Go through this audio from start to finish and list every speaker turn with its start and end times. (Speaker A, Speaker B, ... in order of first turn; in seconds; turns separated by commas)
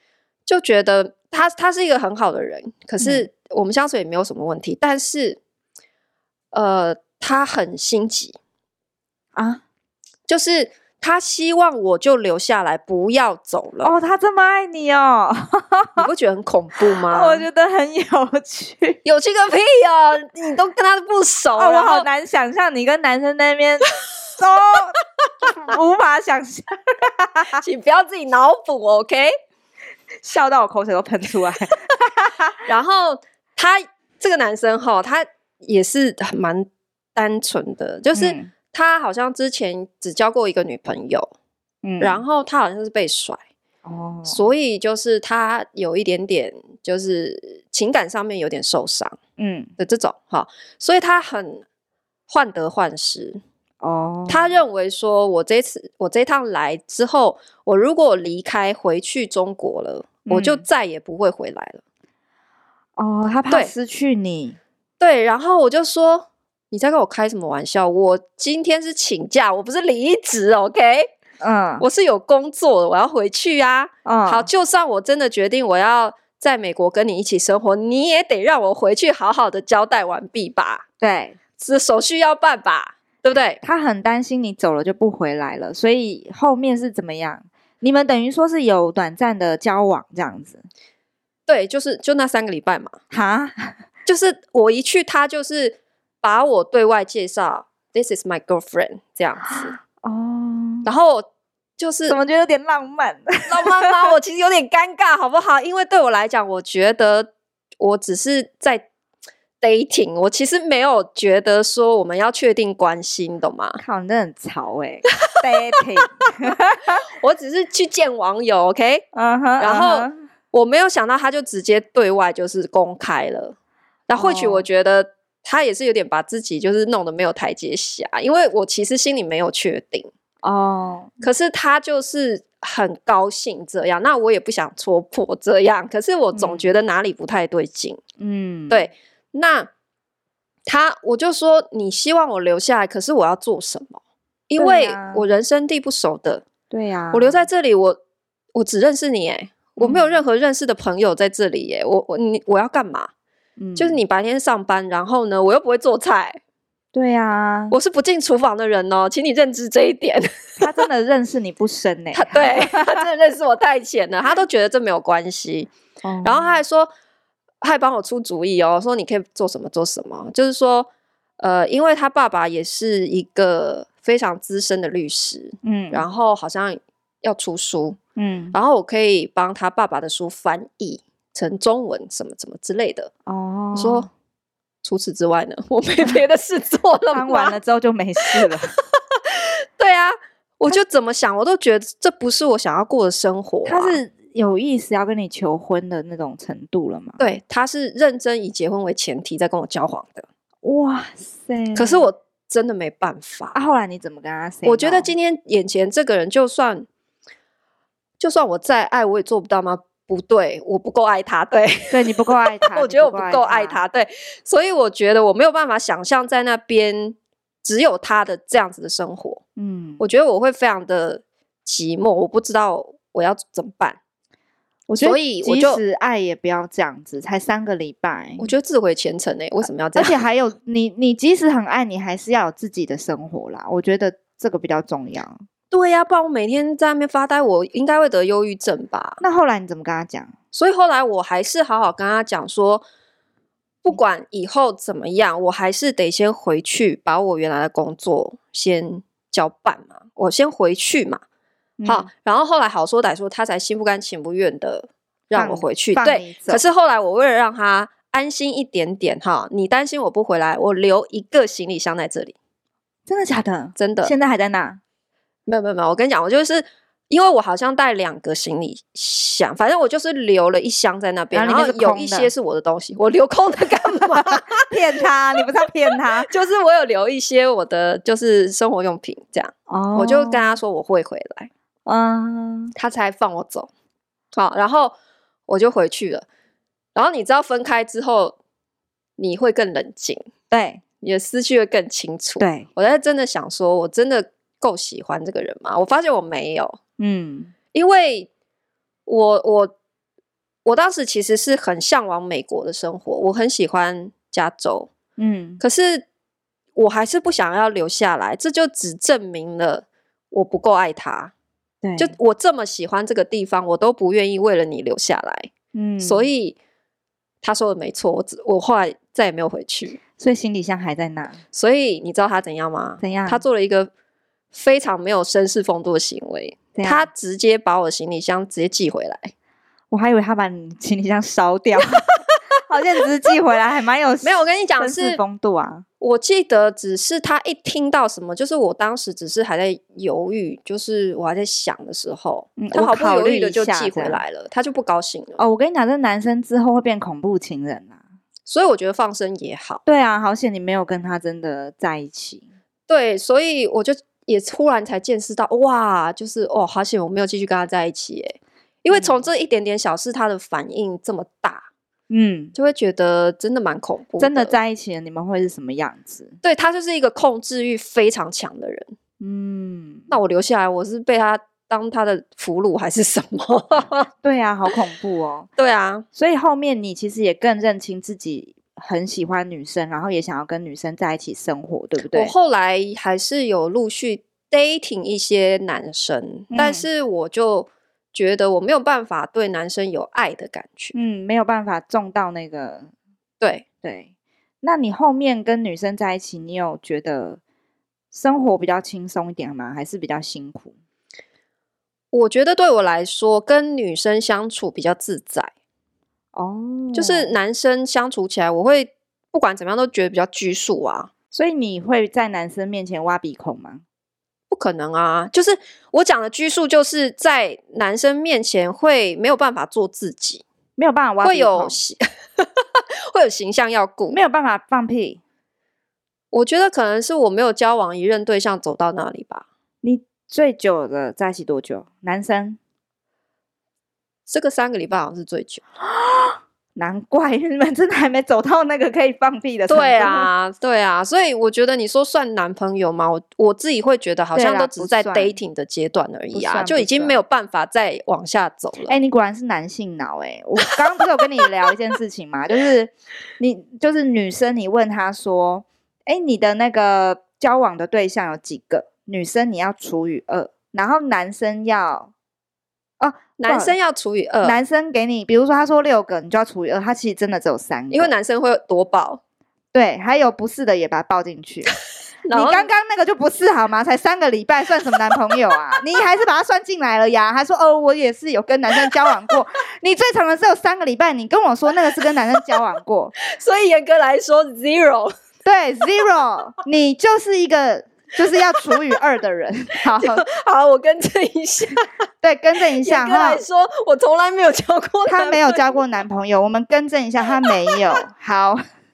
Speaker A: 0.5-5.4, Speaker B: 3.0-3.3, Speaker A: 6.5-8.4, Speaker B: 9.3-9.6, Speaker A: 10.3-13.9, Speaker B: 13.8-16.1, Speaker A: 16.0-17.4, Speaker B: 17.0-19.0, Speaker A: 19.0-22.1, Speaker B: 21.6-27.6, Speaker A: 27.6-29.3, Speaker B: 30.2-32.6, Speaker A: 32.6-41.3, Speaker B: 38.1-38.5, Speaker B: 41.8-42.2, Speaker A: 42.0-43.4, Speaker B: 43.8-44.4, Speaker A: 44.3-49.2, Speaker B: 49.4-49.7, Speaker A: 49.8-51.6, Speaker A: 52.3-53.4, Speaker B: 53.8-54.5, Speaker A: 54.3-61.8, Speaker B: 60.2-60.6, Speaker B: 63.0-64.6, Speaker A: 65.0-71.1, Speaker B: 71.4-71.8, Speaker A: 71.8-80.8, Speaker B: 74.0-74.5, Speaker B: 81.0-81.3, Speaker A: 81.6-83.6, Speaker B: 83.6-90.6, Speaker A: 91.5-93.0, Speaker B: 93.1-93.8, Speaker A: 94.1-99.7, Speaker B: 99.5-100.9, Speaker A: 100.8-102.2, Speaker B: 102.1-104.0, Speaker A: 103.5-108.9, Speaker A: 109.6-113.8, Speaker B: 113.8-117.0, Speaker A: 117.1-119.0, Speaker B: 119.1-120.1, Speaker A: 119.6-123.5, Speaker A: 124.1-130.1, Speaker B: 124.2-124.7, Speaker B: 130.4-131.2, Speaker A: 131.2-138.0, Speaker B: 136.3-136.7, Speaker B: 138.2-138.8, Speaker A: 138.7-139.7, Speaker A: 140.7-146.4, Speaker B: 144.6-145.2, Speaker B: 146.7-147.4, Speaker A: 147.1-148.0, Speaker A: 148.5-153.1, Speaker B: 149.8-150.2, Speaker B: 153.6-154.0, Speaker A: 153.8-156.4, Speaker B: 156.9-157.8, Speaker A: 157.7-160.3, Speaker B: 160.6-163.0, Speaker A: 162.1-165.7, Speaker B: 166.0-166.6, Speaker A: 166.2-166.9, Speaker A: 167.6-178.0, Speaker B: 175.6-176.1, Speaker B: 178.2-178.6, Speaker A: 178.5-183.1, Speaker B: 183.2-184.1, Speaker A: 183.7-184.1, Speaker A: 184.8-187.6, Speaker B: 187.1-188.7, Speaker A: 188.2-194.0, Speaker B: 193.6-197.2, Speaker A: 197.2-200.3, Speaker B: 200.6-202.1, Speaker A: 201.8-203.6, Speaker B: 203.5-205.1, Speaker A: 204.6-206.9, Speaker A: 208.2-219.4, Speaker B: 211.9-213.8, Speaker B: 219.6-220.0, Speaker A: 220.0-224.0, Speaker B: 224.9-228.5, Speaker A: 224.9-225.8, Speaker A: 228.4-230.2, Speaker B: 229.9-235.4, Speaker A: 235.7-239.2, Speaker B: 239.2-240.3, Speaker A: 240.5-242.8, Speaker A: 243.8-251.2, Speaker B: 251.8-252.1, Speaker A: 251.9-262.4, Speaker B: 255.3-256.6, Speaker B: 263.1-264.8, Speaker A: 263.8-264.1, Speaker A: 265.5-274.7, Speaker B: 271.3-272.3, Speaker B: 274.1-276.3, Speaker A: 276.2-281.5, Speaker B: 279.7-280.4, Speaker B: 281.9-282.7, Speaker A: 282.8-283.7, Speaker A: 284.3-284.9, Speaker A: 285.5-286.2, Speaker A: 286.9-288.4, Speaker A: 289.2-290.2, Speaker B: 290.5-290.8, Speaker A: 291.0-296.8, Speaker B: 292.4-292.7, Speaker B: 297.0-297.5, Speaker A: 297.7-298.3, Speaker A: 299.1-299.7, Speaker A: 300.6-304.9, Speaker B: 305.2-305.6, Speaker A: 305.6-306.1, Speaker A: 306.8-311.3, Speaker B: 311.8-312.1, Speaker A: 312.0-316.6, Speaker B: 315.7-316.3, Speaker A: 317.4-320.0, Speaker B: 320.2-321.4, Speaker A: 321.5-323.9, Speaker B: 323.0-323.4, Speaker A: 324.5-329.3, Speaker B: 326.8-327.1, Speaker B: 329.9-332.1, Speaker B: 332.7-335.9, Speaker A: 334.2-335.2, Speaker A: 336.0-345.4, Speaker B: 342.6-344.2, Speaker B: 345.4-348.0, Speaker A: 348.5-349.8, Speaker B: 349.9-352.5, Speaker A: 352.9-361.7, Speaker B: 358.9-359.2, Speaker B: 362.1-362.5, Speaker A: 362.5-364.5, Speaker B: 364.2-366.4, Speaker A: 366.4-368.9, Speaker B: 369.2-370.1, Speaker A: 370.1-374.1, Speaker B: 374.2-375.5, Speaker A: 375.6-376.0, Speaker B: 376.1-382.3, Speaker A: 382.1-390.9, Speaker B: 386.5-386.9, Speaker B: 390.9-392.9, Speaker A: 393.4-393.6, Speaker B: 393.8-394.1, Speaker B: 394.6-397.4, Speaker B: 398.1-400.7, Speaker A: 402.1-405.5, Speaker B: 406.3-407.3, Speaker A: 406.9-411.1, Speaker B: 411.3-413.8, Speaker A: 414.5-420.4, Speaker B: 420.8-421.8, Speaker A: 421.2-422.5, Speaker A: 423.1-424.2, Speaker B: 424.1-425.2, Speaker A: 426.3-429.4, Speaker B: 429.8-432.6, Speaker A: 434.3-435.6, Speaker B: 435.8-440.3, Speaker A: 439.7-448.9, Speaker B: 444.3-445.3, Speaker B: 446.3-447.2, Speaker B: 448.9-462.1, Speaker B: 463.0-463.8, Speaker A: 463.4-464.6, Speaker B: 464.4-468.1, Speaker A: 467.9-469.2, Speaker B: 469.7-471.7, Speaker A: 472.2-472.7, Speaker B: 472.3-483.1, Speaker A: 483.2-485.1, Speaker B: 485.4-490.2, Speaker A: 489.9-491.9, Speaker B: 492.2-493.4, Speaker A: 492.8-495.8, Speaker B: 495.1-498.6, Speaker A: 497.4-497.7